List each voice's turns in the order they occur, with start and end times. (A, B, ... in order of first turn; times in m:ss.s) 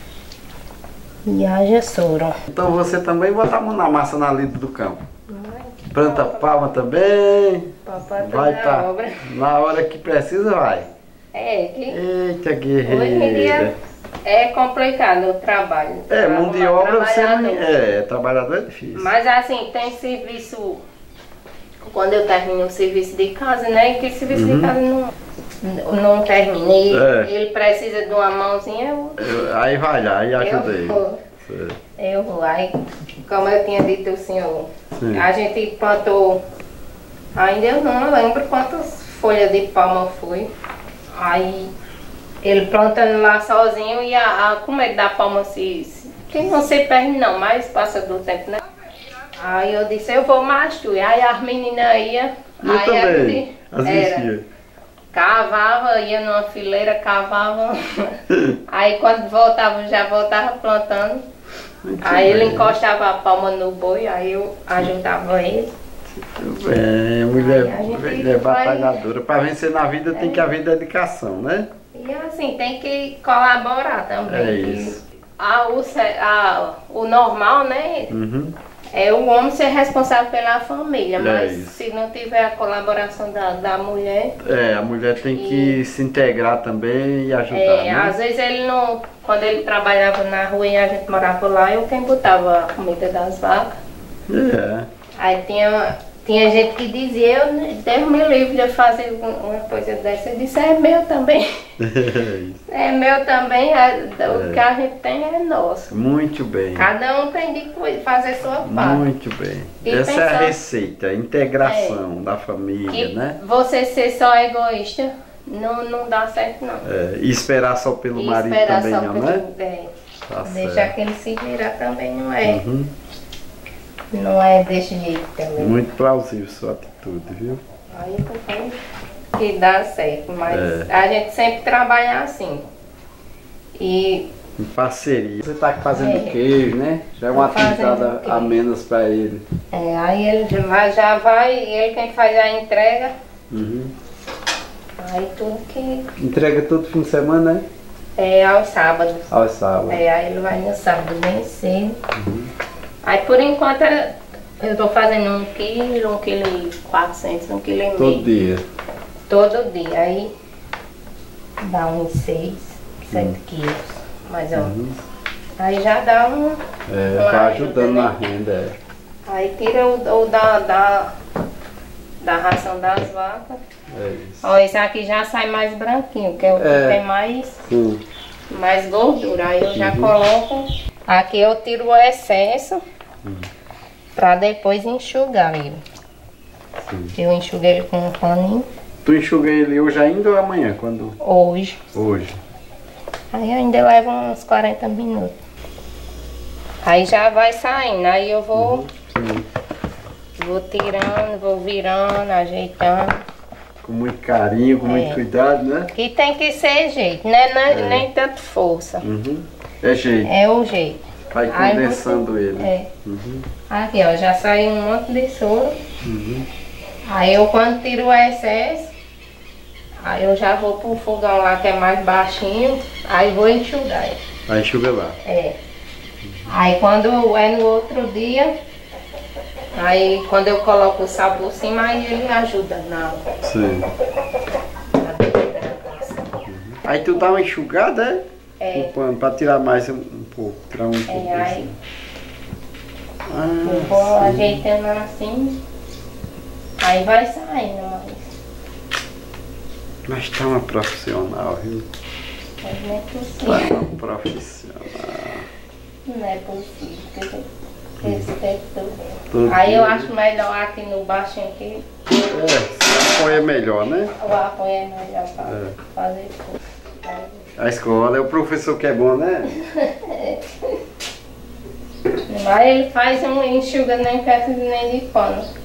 0:01.2-0:02.4 A
0:02.5-0:05.0 B
0:05.3-0:06.8 A
0:05.9-0:10.9 B
0:07.8-0:09.3 A
0:11.3-0:12.0 A
0:11.9-0:13.7 B
0:12.8-0:13.7 A
0:14.2-0:17.7 A
0:16.1-0:19.1 B
0:19.0-0:20.8 A
0:21.8-0:29.5 A
0:24.3-0:24.8 B
0:26.9-0:27.3 B
0:29.2-0:31.8 B
0:30.4-0:31.2 A
0:32.0-0:36.4 A
0:34.9-0:35.3 B
0:37.4-0:40.5 A
0:41.1-0:41.7 A
0:42.4-0:48.6 A
0:49.4-0:54.3 A
0:52.6-0:54.4 B
0:55.1-1:01.2 A
0:58.3-0:58.6 B
1:01.8-1:02.8 B
1:02.0-1:05.7 A
1:06.1-1:11.7 B
1:07.4-1:09.0 A
1:10.1-1:10.5 A
1:11.9-1:18.1 A
1:14.3-1:15.0 B
1:18.1-1:18.6 B
1:18.9-1:24.4 A
1:21.2-1:21.8 B
1:24.4-1:28.2 B
1:25.4-1:25.8 A
1:27.5-1:33.8 A
1:34.3-1:34.9 B
1:35.2-1:41.7 A
1:41.8-1:42.6 B
1:42.7-1:45.9 A
1:44.3-1:44.6 B
1:45.9-1:46.9 B
1:46.8-1:49.0 A
1:48.6-1:53.4 B
1:49.8-1:50.6 A
1:51.6-1:52.0 A
1:52.9-1:56.9 A
1:56.8-1:59.4 B
1:58.2-1:59.9 A
2:00.3-2:00.9 B
2:00.4-2:02.6 A
2:02.4-2:02.9 B
2:04.1-2:05.8 A
2:05.6-2:07.6 B
2:07.9-2:08.8 A
2:09.4-2:12.7 A
2:10.5-2:10.9 B
2:13.8-2:14.3 A
2:14.6-2:19.5 B
2:15.9-2:16.4 A
2:17.3-2:18.6 A
2:19.7-2:23.2 A
2:23.5-2:23.9 B
2:25.0-2:26.1 A
2:26.2-2:27.6 B
2:28.2-2:29.3 A
2:29.3-2:30.0 B
2:29.9-2:32.0 A
2:32.1-2:32.5 B
2:33.0-2:38.3 A
2:38.0-2:38.6 B
2:39.3-2:40.3 A
2:41.6-2:44.8 A
2:44.6-2:45.0 B
2:45.6-2:46.6 A
2:46.9-2:48.8 B
2:47.1-2:48.2 A
2:49.3-2:51.2 A
2:52.2-2:53.6 A
2:53.9-2:54.4 B
2:54.4-2:57.6 A
2:56.6-2:57.0 B
2:57.7-2:58.0 B
2:58.5-3:02.8 A
2:59.7-3:00.1 B
3:03.2-3:03.5 B
3:04.2-3:05.8 A
3:06.8-3:07.2 B
3:07.2-3:08.7 A
3:09.0-3:11.2 B
3:11.2-3:11.8 A
3:12.0-3:12.4 B
3:13.3-3:15.4 A
3:16.8-3:18.9 A
3:18.6-3:19.5 B
3:20.4-3:23.2 A
3:23.8-3:25.9 B
3:24.8-3:25.2 A
3:25.9-3:29.0 A
3:27.7-3:28.1 B
3:29.0-3:30.3 B
3:30.2-3:32.9 A
3:31.3-3:33.5 B
3:33.7-3:35.8 A
3:36.0-3:36.5 B
3:37.1-3:38.9 A
3:40.0-3:44.2 A
3:44.5-3:45.2 B
3:45.2-3:45.6 A
3:46.5-3:48.5 A
3:49.8-3:53.2 A
3:53.4-3:53.9 B
3:55.0-3:56.3 A
3:56.5-3:58.2 B
3:57.2-3:57.4 A
3:58.6-3:58.9 A
3:58.8-4:01.7 B
4:01.1-4:01.7 A
4:03.3-4:04.6 B
4:03.6-4:05.6 A
4:06.8-4:08.3 A
4:10.1-4:11.9 B
4:12.6-4:13.8 A
4:13.5-4:15.5 B
4:16.1-4:17.5 A
4:18.0-4:18.3 B
4:18.0-4:21.9 A
4:19.3-4:20.1 B
4:22.3-4:24.1 B
4:24.2-4:27.4 A
4:25.5-4:25.8 B
4:27.6-4:29.6 B
4:29.5-4:30.8 A
4:32.3-4:35.5 A